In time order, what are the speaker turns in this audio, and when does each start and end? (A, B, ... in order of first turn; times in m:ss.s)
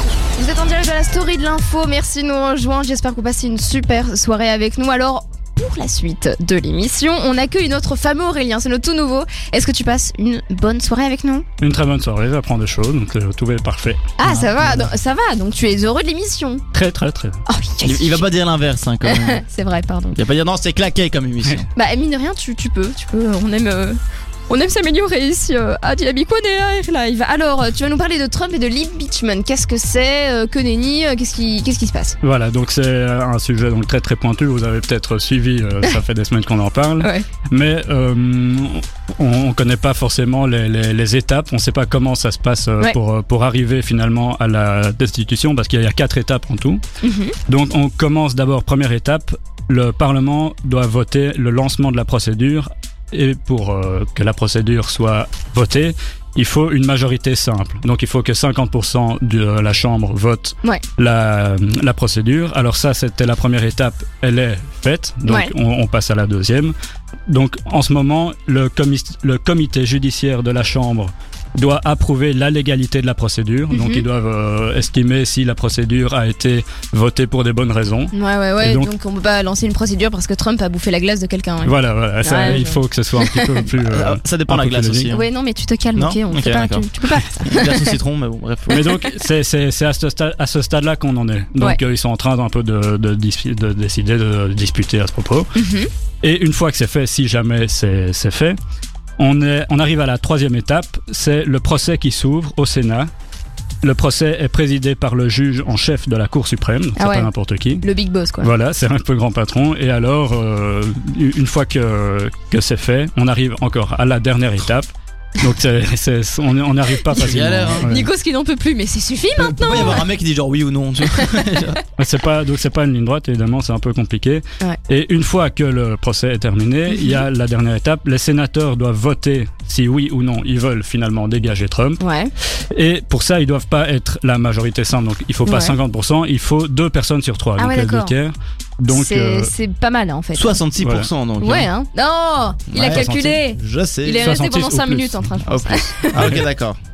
0:00.4-0:11.4 A
0:11.6-0:14.0 B
0:14.2-0:16.6 A
0:16.7-0:17.4 B
0:17.5-0:18.2 A
0:17.8-0:19.4 C
0:19.0-0:20.2 A
0:20.2-0:21.7 C
0:21.7-0:32.2 A
0:32.2-0:46.8 B
0:37.0-0:37.2 A
0:47.0-0:47.4 A
0:47.5-1:06.7 B
1:05.3-1:05.5 A
1:07.3-1:18.9 B
1:13.7-1:14.0 A
1:18.1-1:23.5 A
1:21.6-1:25.1 B
1:23.8-1:25.3 C
1:25.1-1:27.9 A
1:25.9-1:28.9 C
1:28.7-1:35.5 B
1:35.5-1:35.9 A
1:36.2-1:38.6 B
1:39.2-1:43.1 B
1:43.8-1:47.8 B
1:47.0-1:48.5 A
1:48.4-1:58.1 B
1:57.2-1:57.9 C
1:57.2-2:00.0 A
1:59.4-2:01.8 C
1:59.7-2:00.0 B
2:01.1-2:01.4 A
2:02.0-2:12.0 B
2:06.9-2:07.2 A
2:12.0-2:12.3 A
2:12.7-2:19.5 B
2:15.4-2:15.7 A
2:17.6-2:18.1 A
2:18.9-2:20.6 A
2:20.3-2:21.7 C
2:20.8-2:21.1 B
2:21.4-2:26.3 A
2:22.7-2:24.3 C
2:22.8-2:23.4 B
2:24.2-2:25.3 B
2:25.4-2:26.8 C
2:26.1-2:26.4 B